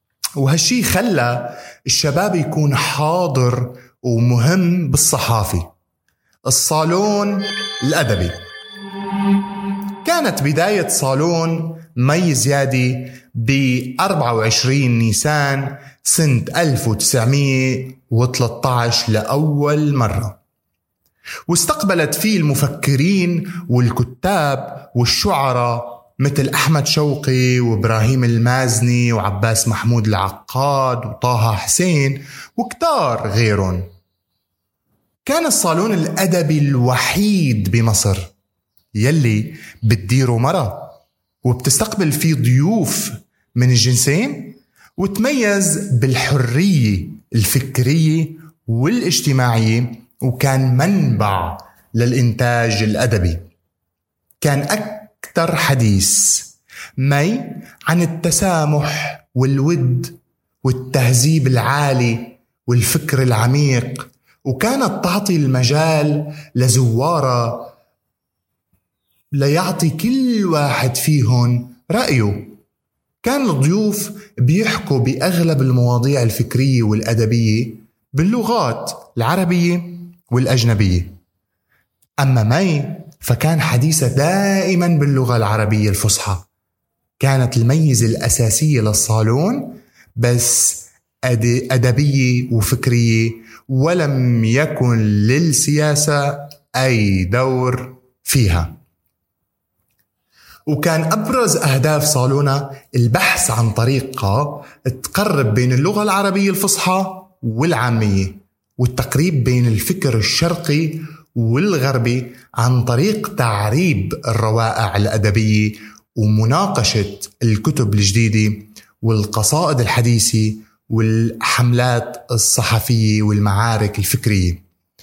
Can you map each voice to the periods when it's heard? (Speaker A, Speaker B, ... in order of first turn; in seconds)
Speaker A: 0.4-5.7, 6.5-8.4, 10.0-20.4, 21.5-33.9, 35.2-38.3, 38.9-53.5, 54.4-67.7, 69.3-72.6, 73.2-81.2, 82.2-86.5, 87.2-98.8, 100.7-124.6